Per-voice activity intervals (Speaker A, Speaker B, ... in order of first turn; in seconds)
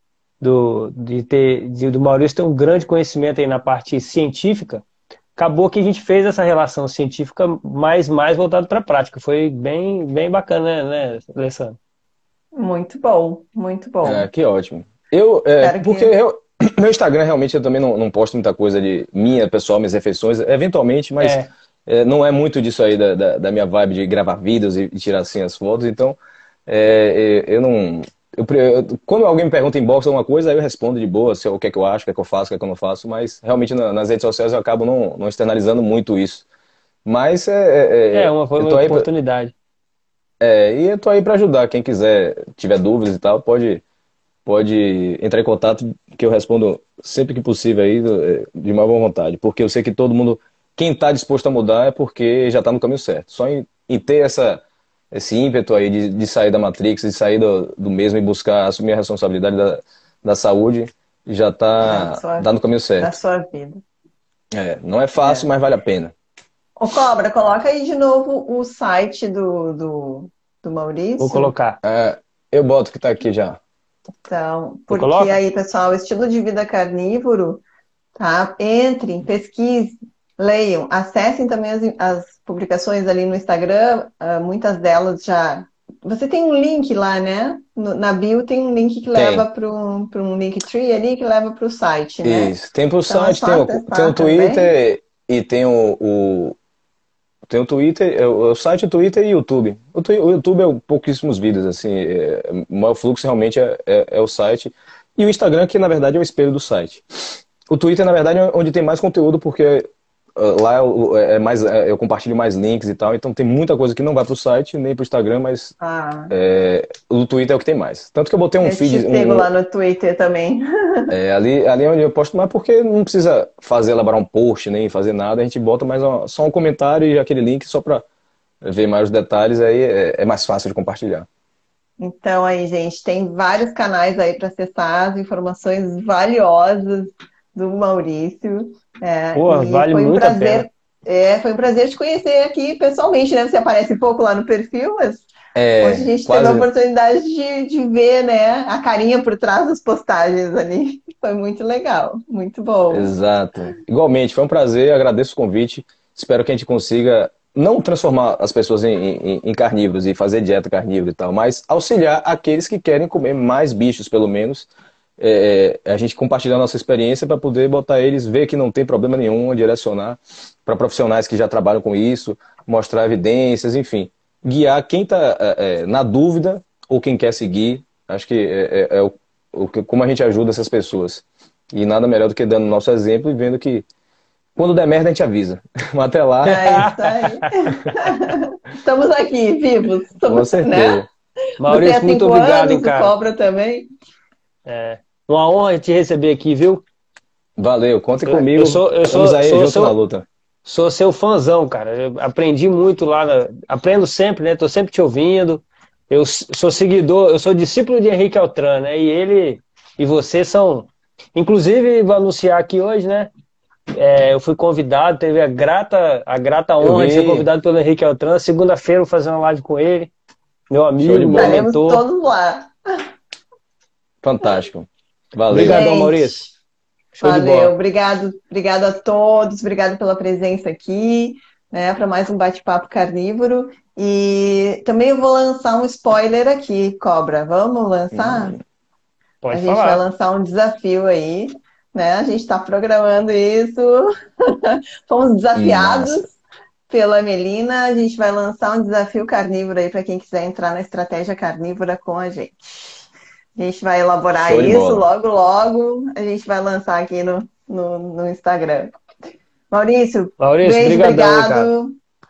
Speaker A: 0.4-4.8, 5.3-11.8, 21.2-21.5, 38.1-39.5, 71.2-71.8, 74.9-75.4, 139.3-140.7, 186.5-188.0, 191.6-193.1, 194.7-196.8, 198.2-199.9, 200.6-213.3, 213.9-220.1, 220.7-222.0, 225.5-225.9, 239.4-240.0, 260.4-261.7
Speaker B: 12.5-14.3, 15.6-16.1, 61.8-63.8, 65.2-65.5, 66.8-71.5, 74.2-77.6, 78.2-92.5, 93.1-94.7, 115.8-116.3, 118.6-121.1, 132.0-145.3, 145.8-153.1, 186.4-191.1, 191.6-193.9, 221.3-223.0, 225.5-226.5, 227.2-238.6, 239.5-246.3, 246.9-253.0, 253.6-259.0, 259.7-262.0
Speaker C: 14.0-36.5, 37.0-39.1, 40.4-43.8, 44.5-63.1, 64.5-66.1, 71.8-73.6, 89.1-89.4, 92.2-96.6, 97.5-109.8, 110.3-115.7, 116.3-119.5, 121.1-128.0, 128.6-131.3, 145.5-146.7, 152.9-183.8, 184.6-186.7, 190.2-191.0, 197.6-200.2, 216.8-217.5, 221.0-221.6, 224.2-226.4, 227.2-227.7, 238.1-238.6, 245.5-246.2, 254.4-255.1